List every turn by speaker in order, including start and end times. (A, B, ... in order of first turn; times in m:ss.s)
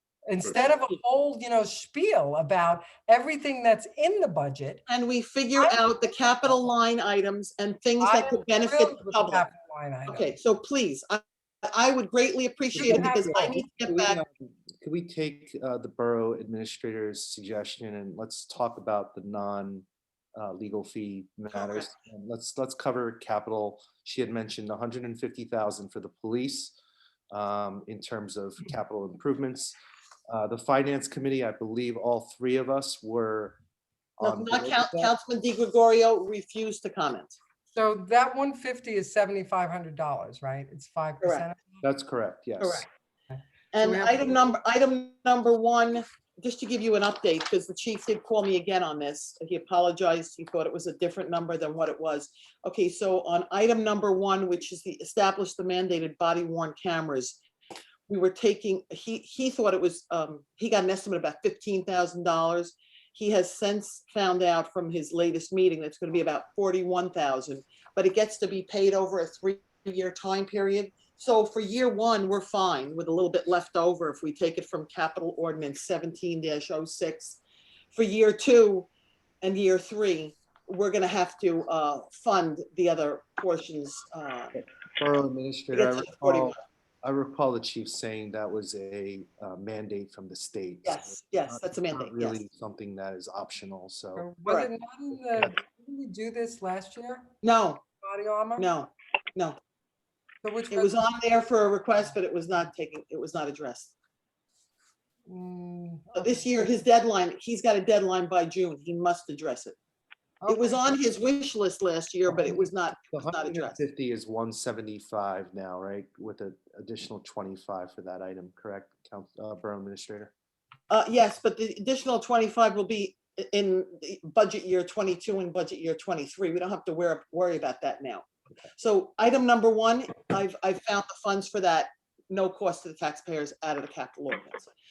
0:00.3-0:04.8 A
0:00.5-0:01.0 B
0:04.9-0:09.5 B
0:05.6-0:06.7 A
0:08.0-0:10.3 A
0:10.1-0:14.2 B
0:12.7-0:26.8 C
0:12.8-0:13.6 A
0:21.5-0:21.8 B
0:27.3-0:29.8 C
0:30.3-0:33.6 C
0:34.2-0:35.1 C
0:34.2-0:37.4 B
0:37.7-0:41.8 A
0:41.2-0:41.5 B
0:41.8-0:42.8 C
0:42.6-0:42.8 B
0:43.3-0:44.4 A
0:43.7-0:57.4 B
0:58.1-1:17.4 B
1:17.9-1:18.9 B
1:19.4-1:24.6 B
1:24.5-1:34.3 C
1:25.7-1:26.6 B
1:30.8-1:32.4 B
1:34.2-1:37.3 A
1:34.4-1:34.7 B
1:37.4-1:37.8 B
1:38.0-1:38.7 A
1:38.6-1:39.6 B
1:40.4-1:41.0 A
1:40.7-1:43.9 B
1:45.2-1:46.8 A
1:46.2-1:49.8 B
1:50.4-1:50.9 A
1:50.5-1:53.8 B
1:52.3-2:00.3 C
2:00.9-2:08.2 B
2:08.8-2:14.7 B